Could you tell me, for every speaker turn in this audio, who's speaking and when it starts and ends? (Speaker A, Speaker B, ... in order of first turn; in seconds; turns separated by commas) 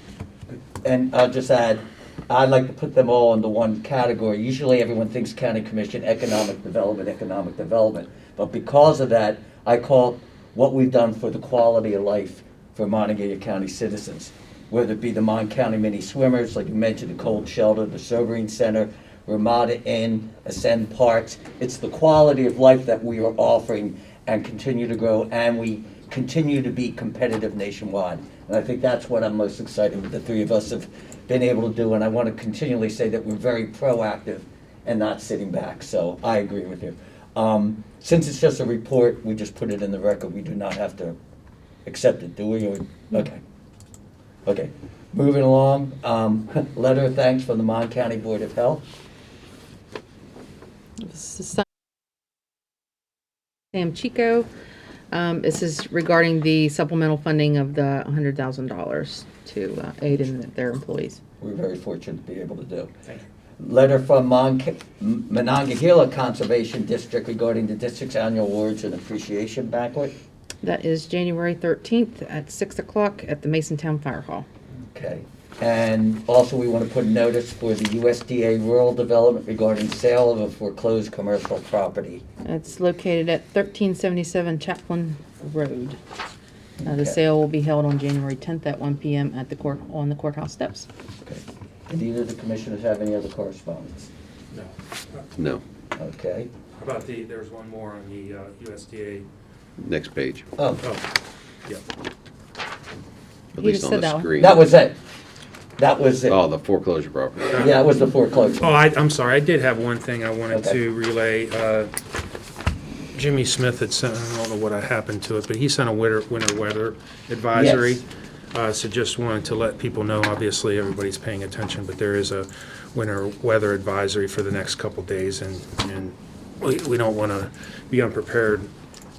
Speaker A: 0.5-41.1, Speaker A: 41.9-43.4, Speaker A: 44.5-48.8, Speaker B: 51.0-51.6, Speaker B: 53.7-54.5, Speaker B: 55.1-61.2, Speaker A: 61.4-62.9, Speaker A: 63.6-70.1, Speaker B: 70.6-74.5, Speaker A: 74.8-82.2, Speaker B: 82.4-86.0, Speaker A: 86.8-87.2, Speaker B: 86.8-90.9, Speaker A: 91.2-94.1, Speaker C: 94.5-95.2, Speaker D: 95.4-95.6, Speaker A: 96.0-96.5, Speaker C: 96.8-99.2, Speaker D: 99.8-100.5, Speaker A: 100.6-100.8, Speaker D: 103.5-104.6, Speaker B: 103.6-104.3, Speaker A: 104.4-105.0, Speaker A: 105.8-106.4, Speaker D: 106.3-107.6, Speaker A: 107.5-108.7, Speaker C: 108.6-111.9, Speaker A: 110.5-110.8, Speaker C: 113.1-128.7, Speaker A: 117.5-118.0